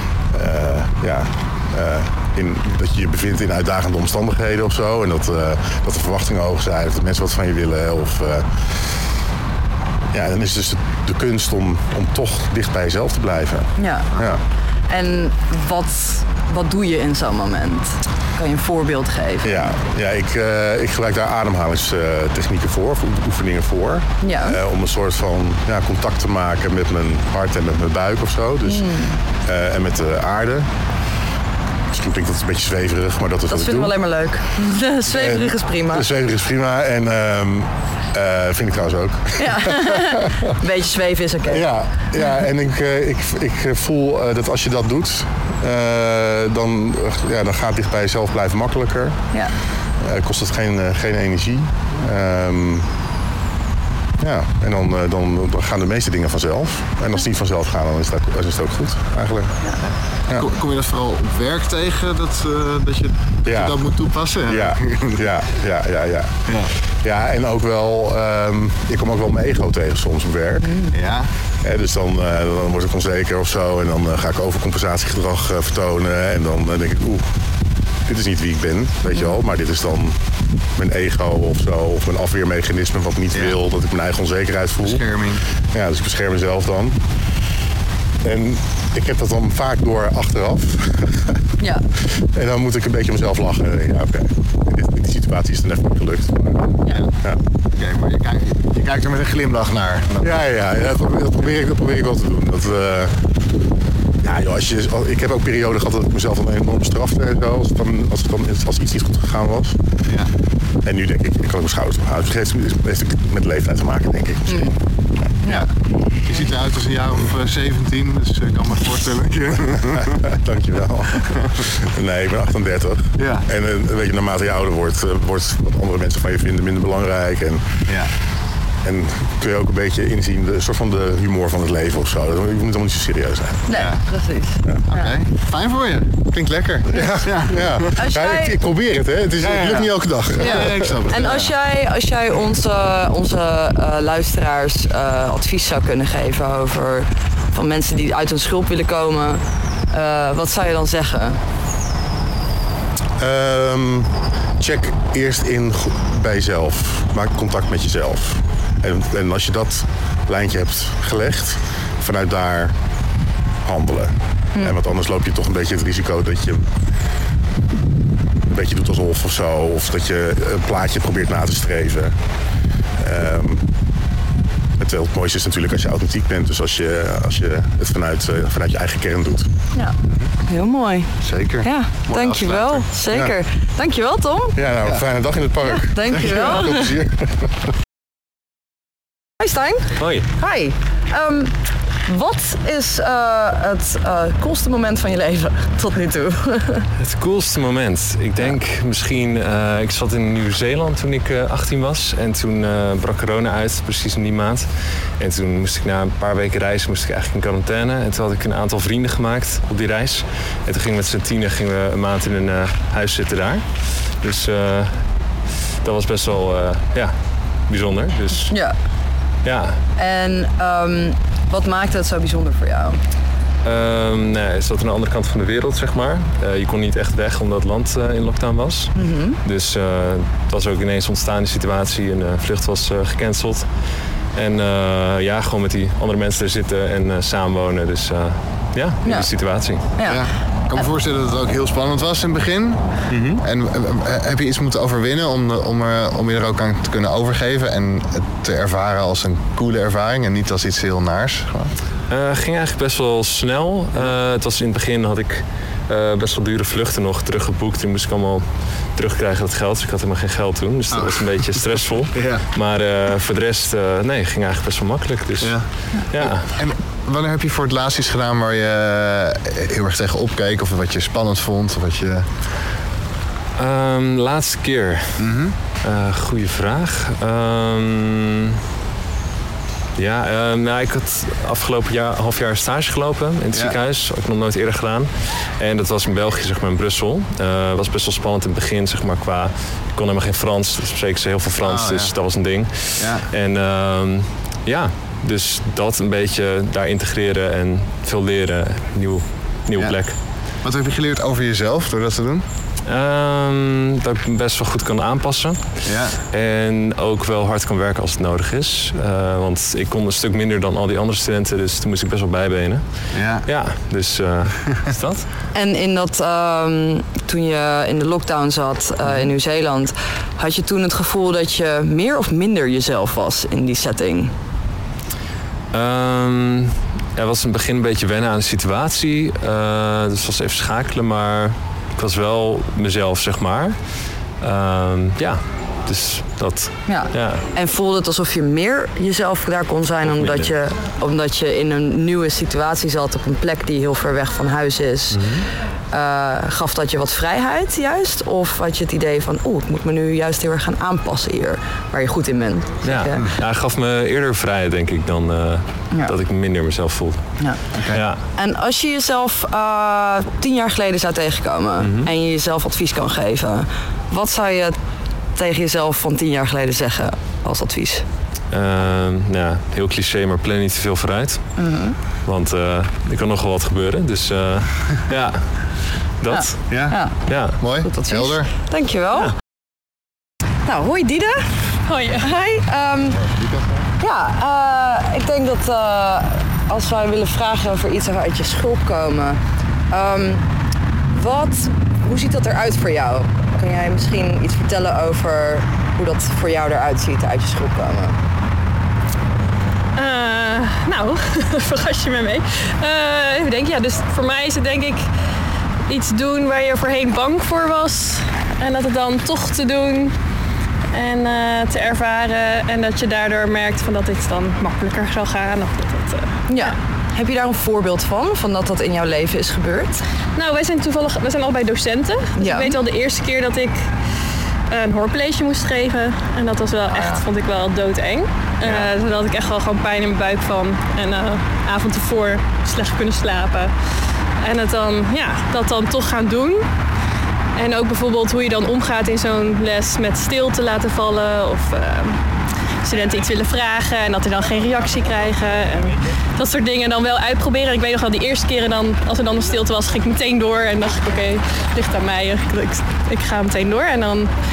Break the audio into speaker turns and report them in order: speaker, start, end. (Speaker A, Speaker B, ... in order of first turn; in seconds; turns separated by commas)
Speaker A: 0.3-9.0, Speaker A: 10.1-14.4, Speaker B: 13.8-14.1, Speaker B: 14.9-19.7, Speaker A: 19.4-30.7, Speaker B: 24.2-24.6, Speaker B: 28.7-29.2, Speaker A: 31.9-34.0, Speaker B: 33.5-36.1, Speaker A: 34.6-40.1, Speaker B: 39.4-41.7, Speaker A: 41.5-49.3, Speaker A: 50.0-52.9, Speaker A: 54.2-59.8, Speaker C: 60.3-65.3, Speaker A: 63.5-63.8, Speaker A: 64.5-70.8, Speaker C: 66.5-66.7, Speaker B: 70.6-70.9, Speaker C: 70.9-71.3, Speaker A: 71.6-77.4, Speaker A: 78.0-80.2, Speaker A: 80.8-87.0, Speaker C: 83.3-83.6, Speaker C: 84.8-85.4, Speaker A: 88.2-91.4, Speaker B: 91.6-91.8, Speaker A: 92.0-97.4, Speaker C: 97.7-100.5, Speaker A: 100.2-103.2, Speaker A: 104.2-110.1, Speaker A: 110.8-114.8, Speaker C: 115.5-115.7, Speaker C: 116.2-120.2, Speaker A: 119.9-128.1, Speaker C: 123.2-123.5, Speaker A: 128.8-133.8, Speaker B: 133.7-135.1, Speaker C: 133.7-134.0, Speaker C: 134.9-137.9, Speaker A: 136.9-141.1, Speaker B: 137.9-138.6, Speaker C: 139.4-141.5, Speaker B: 140.4-151.4, Speaker A: 153.2-162.8, Speaker A: 163.6-166.7, Speaker A: 168.4-172.2, Speaker A: 173.0-173.7, Speaker A: 174.8-179.5, Speaker B: 180.5-184.6, Speaker C: 181.2-182.9, Speaker A: 183.1-183.3, Speaker A: 184.6-187.3, Speaker B: 185.6-186.9, Speaker B: 189.4-196.9, Speaker D: 190.0-190.3, Speaker D: 197.0-215.1, Speaker D: 215.8-218.6, Speaker B: 218.5-218.8, Speaker D: 219.4-219.8, Speaker B: 220.0-223.0, Speaker D: 223.6-239.8, Speaker B: 228.9-229.4, Speaker B: 239.0-240.9, Speaker C: 240.1-251.7, Speaker D: 243.1-243.4, Speaker D: 252.1-266.5, Speaker C: 260.9-262.4, Speaker C: 265.4-272.4, Speaker D: 273.6-278.6, Speaker C: 275.2-275.6, Speaker D: 280.0-300.1, Speaker C: 283.5-283.8, Speaker C: 291.6-292.2, Speaker C: 293.0-293.3, Speaker C: 300.6-302.5, Speaker D: 302.9-315.3, Speaker C: 305.9-306.2, Speaker C: 313.1-313.5, Speaker B: 315.5-324.3, Speaker D: 325.7-337.4, Speaker B: 336.9-353.2, Speaker D: 340.1-340.5, Speaker D: 345.1-345.5, Speaker D: 352.8-358.2, Speaker B: 357.4-357.6, Speaker C: 357.8-358.0, Speaker B: 358.3-364.8, Speaker D: 361.8-362.1, Speaker B: 365.4-368.1, Speaker D: 368.5-371.6, Speaker B: 371.6-372.0, Speaker D: 372.2-377.6, Speaker B: 376.3-379.3, Speaker C: 376.7-377.0, Speaker C: 377.6-378.5, Speaker B: 380.7-381.7, Speaker E: 381.8-382.4, Speaker B: 382.2-383.2, Speaker C: 383.1-383.9, Speaker B: 384.0-390.5, Speaker B: 391.1-398.2, Speaker E: 400.0-405.0, Speaker E: 405.9-410.1, Speaker E: 410.9-416.8, Speaker B: 416.5-420.0, Speaker E: 420.4-423.9, Speaker B: 422.4-422.8, Speaker E: 424.7-433.7, Speaker C: 426.9-427.2, Speaker C: 428.6-428.9, Speaker E: 434.4-436.7, Speaker E: 437.6-442.2, Speaker E: 442.8-454.3